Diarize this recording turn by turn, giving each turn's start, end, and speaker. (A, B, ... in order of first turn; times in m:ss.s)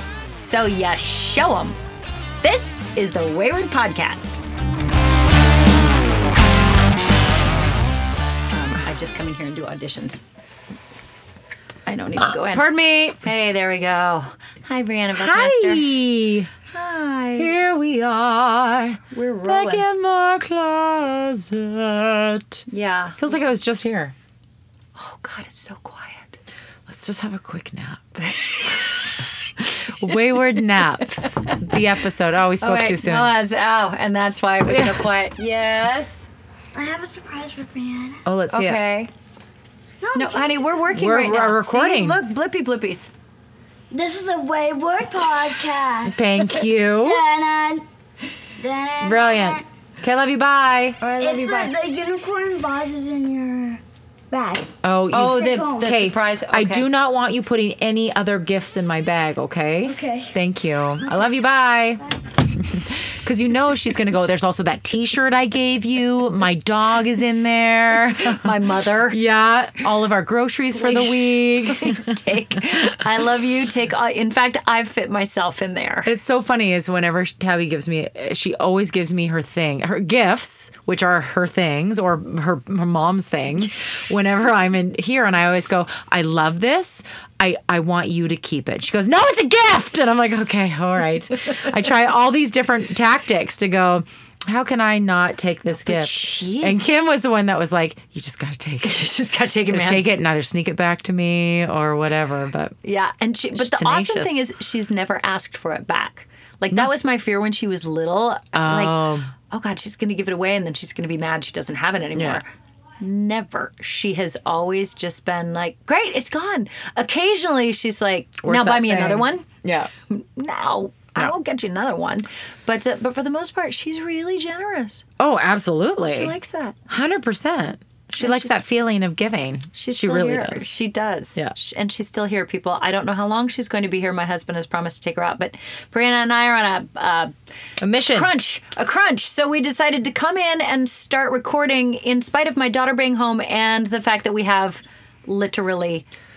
0:00.3-0:01.8 A
0:02.4-0:04.4 A
0:08.5-0:10.2 A
0:11.9-0:12.7 A
0:12.5-0:13.2 B
0:13.2-0:15.9 A
0:15.1-0:16.5 B
0:16.7-0:17.5 A
0:17.4-0:22.7 B
0:19.1-0:19.9 A
0:22.7-0:23.2 A
0:23.2-0:24.2 B
0:25.0-0:26.4 A
0:26.9-0:28.2 B
0:28.3-0:29.1 A
0:29.6-0:33.3 B
0:31.5-0:31.8 A
0:32.6-0:36.3 A
0:34.7-0:35.0 B
0:36.8-0:38.2 C
0:38.2-0:38.8 B
0:38.5-0:39.1 A
0:40.0-0:40.9 C
0:40.2-0:43.1 A
0:40.9-0:42.2 B
0:43.9-0:47.8 C
0:46.0-0:47.2 B
0:48.6-0:49.6 C
0:49.0-0:51.0 B
0:51.0-0:51.8 A
0:51.2-0:56.0 C
0:54.8-1:08.5 B
0:55.1-0:56.9 A
0:59.9-1:00.3 C
1:08.2-1:09.2 A
1:09.1-1:12.1 B
1:10.8-1:16.1 A
1:16.0-1:39.1 B
1:35.8-1:36.9 A
1:38.8-1:40.1 A
1:39.7-1:42.8 B
1:42.8-1:52.5 A
1:43.5-1:44.4 B
1:48.5-1:49.3 B
1:52.2-1:52.4 B
1:53.0-1:59.5 A
1:58.4-1:59.9 B
2:00.1-2:05.1 A
2:05.2-2:06.3 B
2:06.1-2:06.8 A
2:06.9-2:10.7 B
2:08.2-2:08.6 A
2:09.8-2:17.3 A
2:17.8-2:18.3 B
2:18.1-2:26.1 A